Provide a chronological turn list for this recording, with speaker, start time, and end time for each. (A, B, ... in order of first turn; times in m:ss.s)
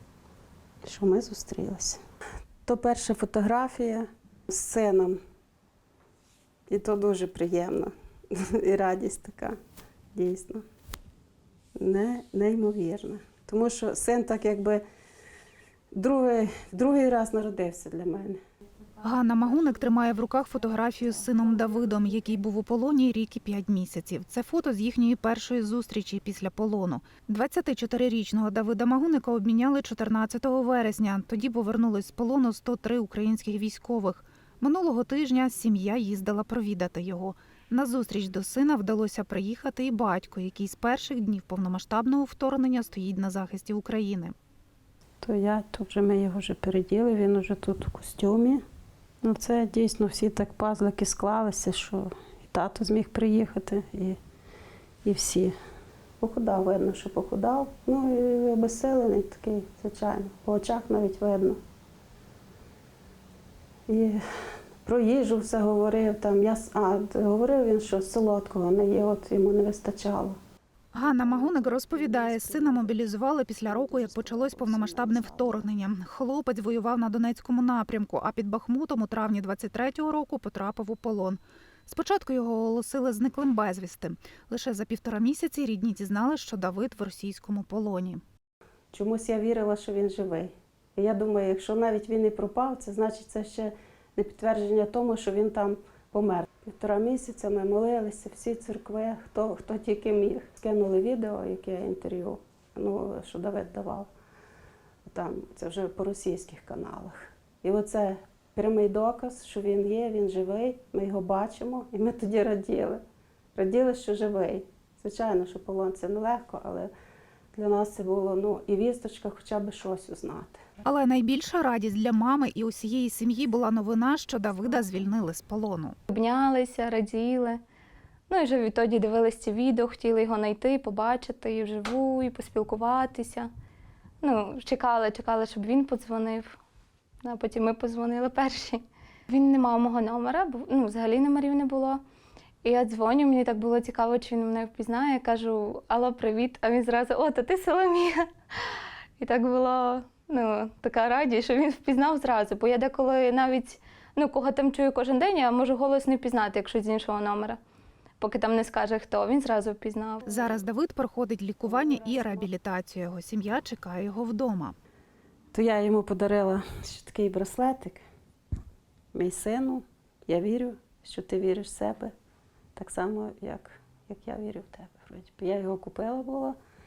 0:00.8-0:02.0 A
0:02.7-0:05.2 A
0:06.7-0:09.6 A
0:10.1-0:10.6 A
0:11.8-0:14.8 A
0:15.9-0:18.4 A
0:19.0-0:44.3 B
0:45.2-0:48.6 A
0:49.2-0:54.2 A
0:55.0-0:55.5 A
0:56.2-1:01.6 A
1:03.9-1:04.2 A
1:04.8-1:10.4 A
1:10.9-1:28.2 B
1:11.1-1:13.0 A
1:13.7-1:15.7 A
1:28.9-1:44.1 A
1:45.1-1:53.0 A
1:53.6-1:56.9 A
1:57.5-2:00.6 A
2:00.8-2:06.0 B
2:06.1-2:07.6 C
2:08.3-2:13.5 C
2:14.2-2:16.6 C
2:17.2-2:22.0 C
2:22.6-2:37.6 C
2:38.2-2:40.4 C
2:40.2-2:44.8 B
2:41.7-2:42.5 A
2:45.5-2:48.0 A
2:49.1-2:52.1 A
2:52.8-2:56.6 A